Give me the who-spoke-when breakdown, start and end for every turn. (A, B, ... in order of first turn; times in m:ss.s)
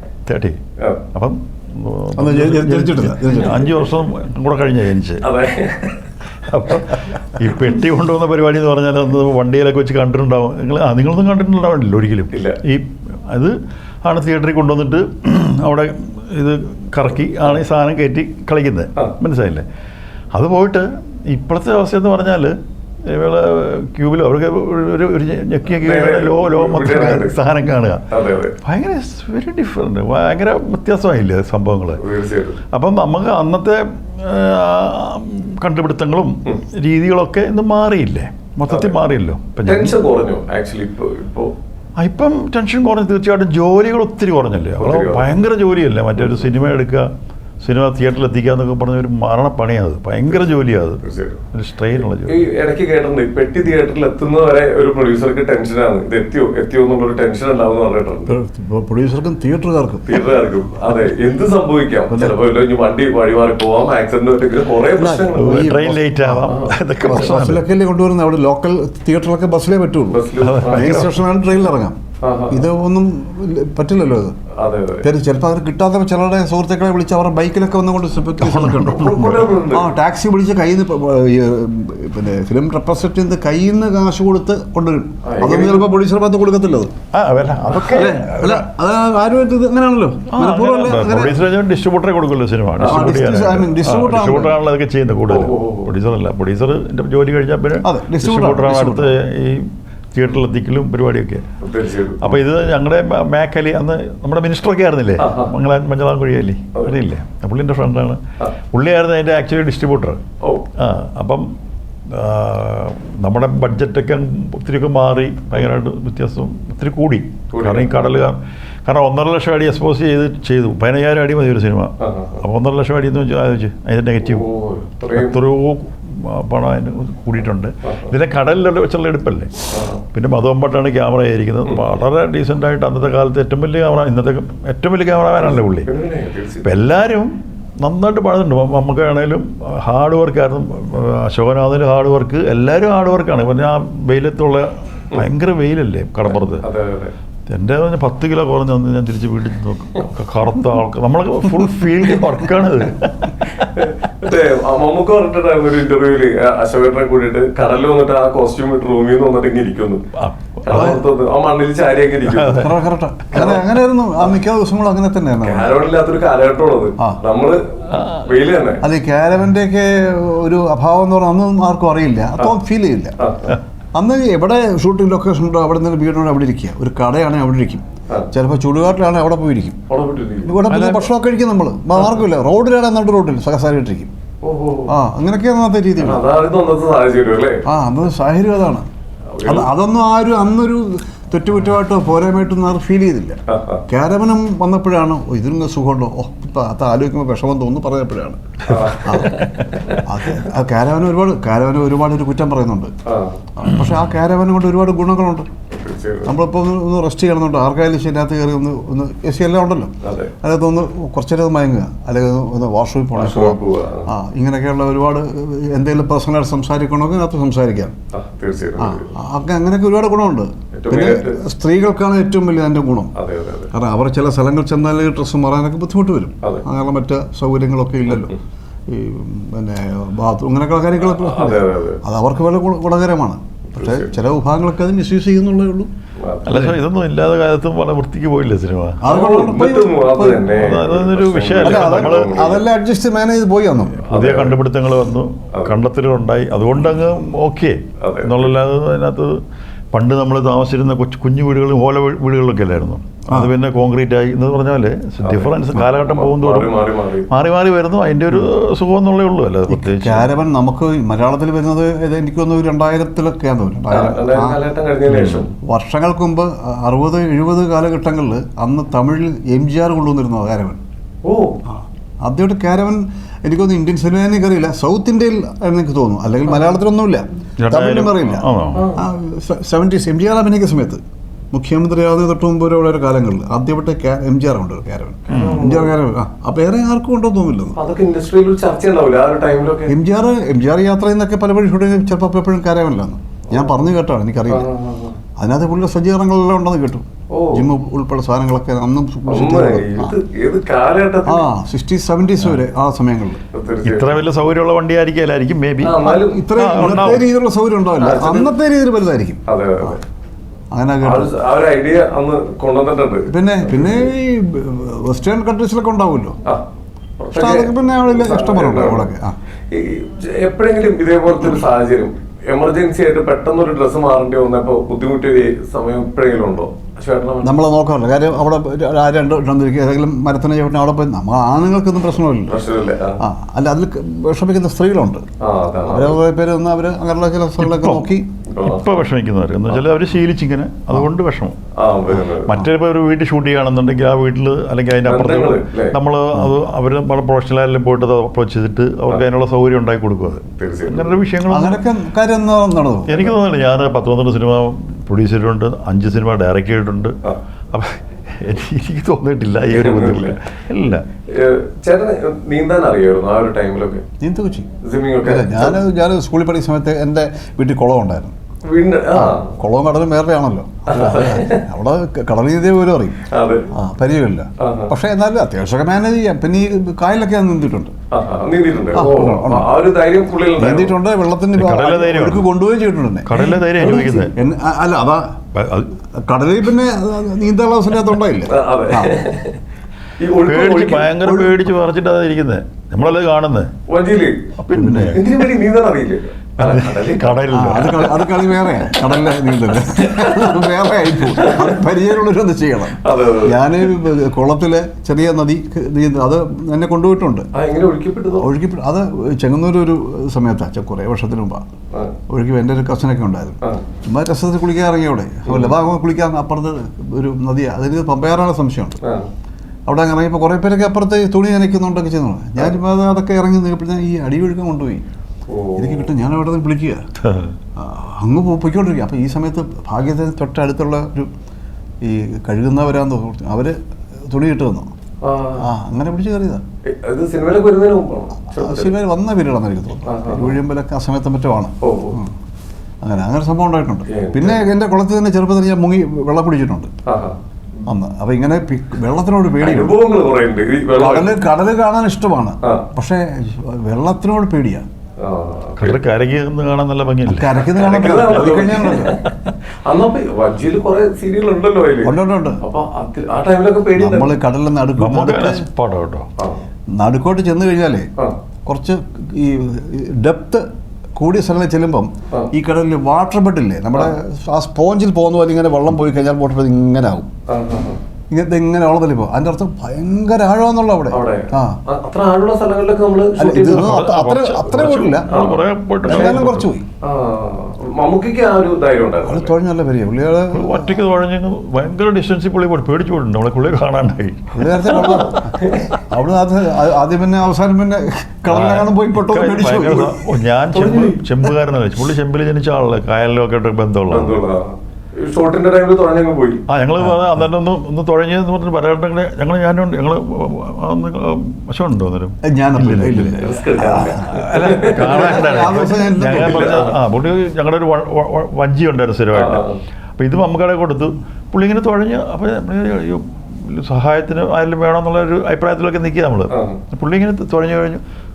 0:00.3-0:00.6 A
0:01.1-0:05.2 A
0:02.2-0:03.7 B
0:05.2-0:06.0 C
0:06.4-0:19.6 A
0:12.3-0:12.6 C
0:20.3-0:22.5 A
0:23.0-0:28.0 A
0:25.8-0:27.4 C
0:28.1-0:28.5 C
0:28.6-0:32.0 A
0:32.0-0:32.6 C
0:32.7-0:40.0 A
0:38.7-0:39.0 C
0:39.6-0:41.5 C
0:42.0-0:47.1 A
0:44.8-0:45.3 C
0:46.2-0:46.5 C
0:47.6-0:52.4 A
0:51.0-0:51.4 C
0:52.2-0:58.3 C
0:58.3-1:00.1 B
1:00.0-1:05.7 C
1:02.1-1:02.4 B
1:05.0-1:12.0 B
1:05.4-1:07.6 A
1:06.4-1:06.8 C
1:10.1-1:11.1 C
1:10.4-1:11.2 A
1:12.2-1:12.6 C
1:12.5-1:14.3 B
1:14.5-1:15.1 C
1:15.0-1:26.9 B
1:18.4-1:19.5 A
1:18.8-1:19.9 C
1:25.2-1:25.9 C
1:27.1-1:28.6 A
1:27.7-1:28.1 C
1:27.9-1:31.4 B
1:30.3-1:41.4 A
1:32.8-1:33.1 C
1:32.8-1:34.6 B
1:35.3-1:35.9 C
1:37.8-1:39.1 B
1:41.6-1:42.4 C
1:42.2-1:48.2 A
1:45.2-1:45.5 C
1:48.7-1:50.2 A
1:50.8-1:51.5 A
1:52.1-2:04.4 A
1:57.5-1:57.9 C
2:02.0-2:02.4 C
2:04.2-2:05.4 C
2:05.1-2:15.9 A
2:09.7-2:10.0 C
2:15.4-2:16.7 C
2:16.6-2:26.6 A
2:26.3-2:27.1 C
2:27.5-2:33.8 A
2:33.7-2:40.0 C
2:40.1-2:41.0 A
2:40.6-2:42.7 C
2:40.7-2:41.0 B
2:42.3-2:42.8 A
2:42.6-2:45.7 B
2:43.3-2:43.6 C
2:45.4-2:48.8 C
2:47.9-2:48.3 A
2:48.8-2:53.2 B
2:53.2-2:53.6 C
2:53.9-2:59.8 B
2:59.9-3:00.6 C
3:00.4-3:04.1 B
3:00.7-3:01.1 A
3:04.4-3:04.9 C
3:04.9-3:06.2 B
3:06.0-3:07.6 C
3:07.7-3:08.8 B
3:09.3-3:09.7 C
3:09.4-3:19.4 B
3:13.5-3:13.8 C
3:18.7-3:20.0 C
3:20.0-3:22.9 B
3:23.1-3:23.4 C
3:23.6-3:25.5 B
3:25.7-3:26.3 C
3:26.2-3:38.0 B
3:30.0-3:30.3 C
3:33.1-3:34.1 C
3:38.1-3:39.1 C
3:38.8-3:43.1 B
3:40.7-3:41.4 C
3:43.1-3:43.7 C
3:43.7-3:48.3 B
3:48.1-3:48.4 C
3:48.9-3:55.9 B
3:51.0-3:52.0 C
3:53.7-3:54.1 C
3:56.2-3:56.7 C
3:56.4-3:56.8 B
3:56.4-3:59.0 A
3:59.0-4:00.6 B
3:59.1-4:02.6 C
4:00.5-4:02.4 A
4:01.6-4:04.1 B
4:04.1-4:04.6 C
4:04.1-4:09.4 A
4:08.0-4:08.5 C
4:09.9-4:20.3 A
4:15.2-4:17.3 C
4:19.7-4:24.6 B
4:23.9-4:25.5 C
4:25.1-4:25.4 A
4:25.6-4:30.8 B
4:31.2-4:31.6 C
4:31.7-4:38.4 B
4:37.6-4:38.9 A
4:38.7-4:39.1 C
4:39.0-4:41.0 B
4:41.5-4:47.8 B
4:45.3-4:45.9 C
4:45.3-4:45.7 A
4:47.8-4:49.9 C
4:49.9-4:54.7 B
4:53.5-4:53.8 C
4:54.5-4:55.2 C
4:55.4-5:00.1 B
4:57.3-4:57.7 C
4:59.3-5:01.5 C
5:01.2-5:03.4 B
5:03.5-5:04.2 C
5:03.8-5:07.2 A
5:05.8-5:06.9 C
5:06.0-5:10.0 B
5:08.0-5:08.5 C
5:09.5-5:10.0 C
5:10.7-5:11.3 B
5:11.0-5:14.1 C
5:13.3-5:16.4 B
5:17.2-5:19.1 C
5:17.3-5:19.3 B
5:19.7-5:27.6 C
5:27.4-5:32.6 B
5:32.5-5:33.2 C
5:33.2-5:35.2 B
5:35.4-5:36.2 C
5:35.8-5:38.3 B
5:37.6-5:38.0 A
5:38.5-5:38.8 C
5:38.6-5:41.6 A
5:41.8-5:42.6 C
5:42.4-5:51.8 A
5:45.1-5:45.9 C
5:50.6-5:51.1 C
5:51.5-5:53.3 B
5:53.1-5:57.1 A
5:57.7-6:01.0 A
5:59.7-6:00.4 C
6:01.3-6:04.0 C
6:04.2-6:04.7 B
6:04.8-6:05.8 C
6:05.2-6:08.4 B
6:08.6-6:09.6 C
6:09.1-6:17.9 B
6:10.9-6:11.6 C
6:13.2-6:13.7 C
6:14.6-6:14.9 C
6:18.1-6:21.0 C
6:18.9-6:19.7 B
6:20.6-6:23.3 B
6:21.6-6:22.5 A
6:23.3-6:24.3 A
6:23.3-6:24.3 C
6:24.3-6:25.4 B
6:25.6-6:25.9 A
6:26.1-6:29.1 B
6:28.4-6:29.6 C
6:30.2-6:31.1 C
6:30.4-6:33.7 A
6:31.2-6:31.6 B
6:33.9-6:34.5 C
6:34.6-6:35.3 A
6:34.7-6:35.2 B
6:35.1-6:37.4 C
6:36.6-6:38.7 A
6:37.5-6:47.5 B
6:39.8-6:41.8 C
6:43.0-6:43.9 C
6:47.5-6:48.5 C
6:48.4-6:51.6 B
6:52.3-6:59.0 B
6:55.4-6:55.7 C
6:59.0-6:59.3 C
6:59.9-7:05.0 B
7:05.5-7:06.1 C
7:05.8-7:07.0 B
7:07.2-7:07.5 A
7:07.8-7:11.3 B
7:12.0-7:14.9 B
7:15.2-7:15.7 C
7:15.6-7:16.6 B
7:16.9-7:18.9 C
7:18.6-7:22.3 B
7:20.1-7:20.5 C
7:21.8-7:22.2 C
7:23.0-7:26.9 B
7:24.1-7:24.7 C
7:27.1-7:27.4 C
7:27.8-7:30.0 B
7:29.6-7:31.4 C
7:30.9-7:34.8 B
7:35.2-7:36.0 C
7:35.8-7:37.6 A
7:37.2-7:39.2 B
7:37.7-7:44.3 C
7:42.0-7:42.6 B
7:44.0-7:45.6 B
7:45.0-7:46.3 A
7:46.4-7:46.6 C
7:46.9-7:48.1 B
7:48.7-7:50.6 B
7:51.2-7:57.3 B
7:57.5-7:58.0 C
7:58.3-8:01.8 B
8:01.1-8:06.3 C
8:03.4-8:05.3 B
8:03.7-8:06.7 A
8:06.0-8:06.8 B
8:07.0-8:09.5 C
8:09.2-8:11.0 B
8:10.5-8:14.8 A
8:14.5-8:20.3 B
8:14.9-8:15.9 C
8:18.5-8:24.4 A
8:20.7-8:21.2 C
8:24.1-8:26.6 C
8:26.7-8:33.4 A
8:32.4-8:36.9 B
8:33.4-8:35.8 C
8:34.3-8:39.7 A
8:36.4-8:36.9 C
8:39.3-8:39.8 C
8:40.2-8:48.0 A
8:46.5-8:46.8 C